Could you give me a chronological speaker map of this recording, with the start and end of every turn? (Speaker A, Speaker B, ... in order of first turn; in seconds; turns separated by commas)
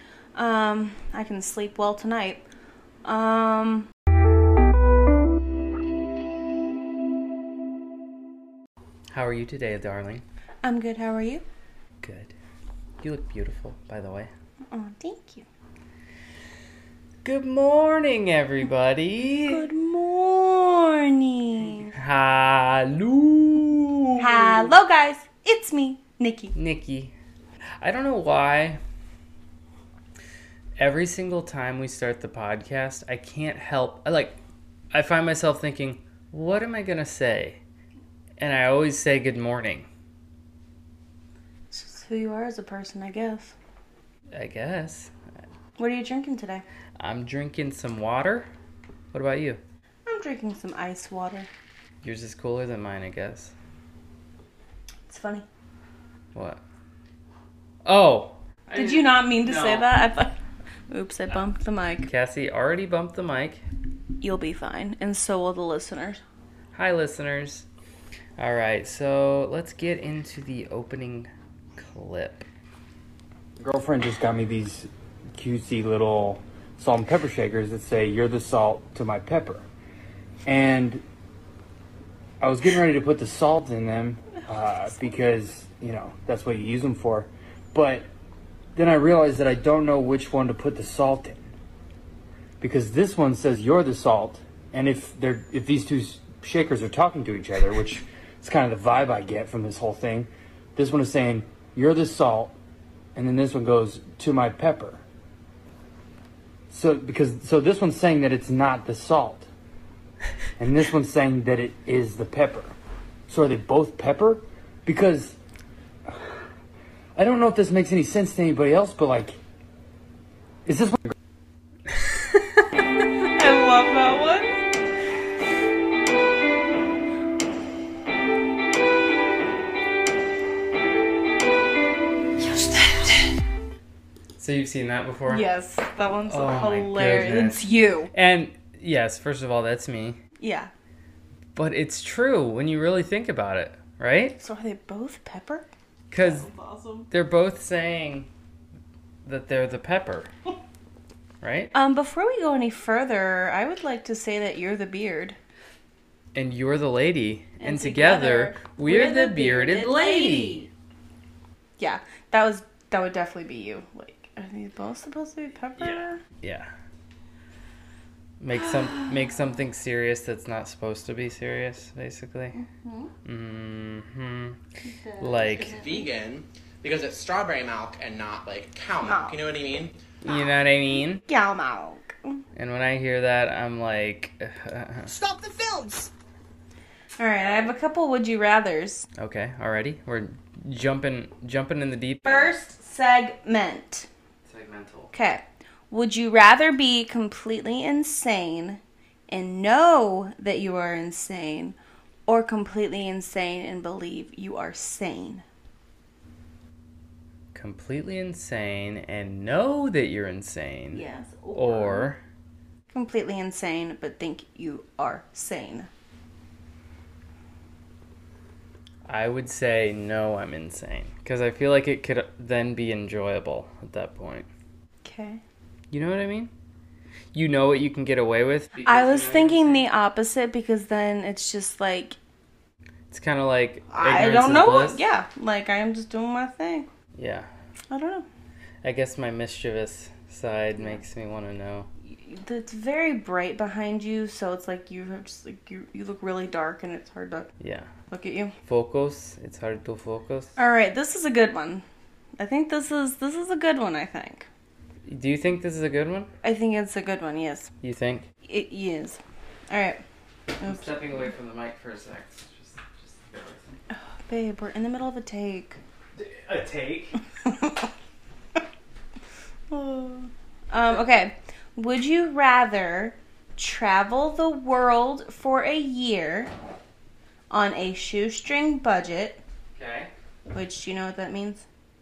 Speaker A: 0.3-2.4, Speaker A: 3.0-3.9, Speaker B: 9.1-10.2, Speaker A: 10.6-11.4, Speaker B: 12.0-12.3, Speaker B: 13.0-14.3, Speaker A: 14.7-15.4, Speaker B: 17.2-19.6, Speaker A: 19.4-21.9, Speaker B: 21.9-24.7, Speaker A: 24.2-26.5, Speaker B: 26.5-27.1, Speaker B: 27.8-28.8, Speaker B: 30.8-34.4, Speaker B: 34.9-37.6, Speaker B: 38.4-39.9, Speaker A: 41.7-43.5, Speaker B: 44.3-45.1, Speaker A: 45.8-46.6, Speaker B: 47.0-48.5, Speaker B: 49.1-49.6, Speaker A: 50.0-51.5, Speaker B: 52.0-53.5, Speaker A: 55.1-55.4, Speaker B: 56.3-56.6, Speaker B: 57.8-59.9, Speaker A: 58.7-60.4, Speaker A: 60.9-62.1, Speaker B: 62.0-63.6, Speaker A: 64.2-66.2, Speaker B: 66.7-67.7, Speaker B: 68.4-72.5, Speaker C: 73.6-79.6, Speaker C: 80.4-81.0, Speaker C: 82.4-88.1, Speaker C: 88.7-91.5, Speaker C: 92.6-102.5, Speaker C: 103.1-105.0, Speaker C: 106.7-109.5, Speaker C: 110.6-112.7, Speaker C: 113.3-115.3, Speaker C: 117.1-119.4, Speaker C: 120.6-121.1, Speaker A: 123.3-124.6, Speaker A: 132.4-133.3, Speaker B: 134.4-135.4, Speaker A: 135.3-138.1, Speaker B: 136.2-140.2, Speaker A: 140.4-140.7, Speaker B: 141.6-144.4, Speaker A: 144.4-147.1, Speaker B: 146.1-146.5, Speaker B: 147.1-148.3, Speaker B: 149.2-150.3, Speaker B: 151.4-151.7, Speaker A: 151.7-155.3, Speaker B: 156.3-160.7, Speaker A: 157.6-160.7, Speaker A: 161.8-166.2, Speaker B: 165.8-166.7, Speaker B: 168.4-172.6, Speaker A: 172.5-173.1, Speaker B: 173.2-174.6, Speaker A: 174.8-176.1, Speaker B: 175.2-175.8, Speaker D: 175.5-180.0, Speaker A: 179.0-179.4, Speaker B: 180.2-181.2, Speaker A: 181.2-182.4, Speaker B: 182.6-185.1, Speaker D: 185.1-186.1, Speaker A: 187.2-189.1, Speaker B: 189.2-192.5, Speaker A: 192.2-194.1, Speaker B: 194.5-195.1, Speaker A: 195.1-201.8, Speaker A: 202.3-205.4, Speaker B: 207.5-211.0, Speaker A: 210.9-212.1, Speaker B: 211.5-212.2, Speaker A: 212.9-215.9, Speaker B: 219.1-224.5, Speaker A: 225.0-225.4, Speaker B: 225.9-226.5, Speaker B: 227.3-229.9, Speaker A: 228.8-232.2, Speaker B: 233.1-235.0, Speaker A: 233.9-236.9, Speaker B: 237.1-237.5, Speaker A: 237.9-238.2, Speaker B: 238.8-241.9, Speaker A: 242.0-247.5, Speaker B: 247.6-247.9, Speaker A: 248.1-248.5, Speaker B: 248.7-250.5, Speaker A: 250.6-251.8, Speaker A: 252.4-254.5, Speaker B: 255.1-256.3, Speaker A: 256.4-257.7, Speaker B: 257.8-258.3, Speaker A: 258.4-260.0, Speaker A: 260.6-260.9, Speaker B: 260.6-263.7, Speaker A: 263.9-265.8, Speaker B: 266.2-267.2, Speaker A: 267.4-267.7, Speaker A: 269.7-276.5, Speaker A: 277.5-279.4, Speaker B: 279.8-280.1, Speaker A: 280.5-281.6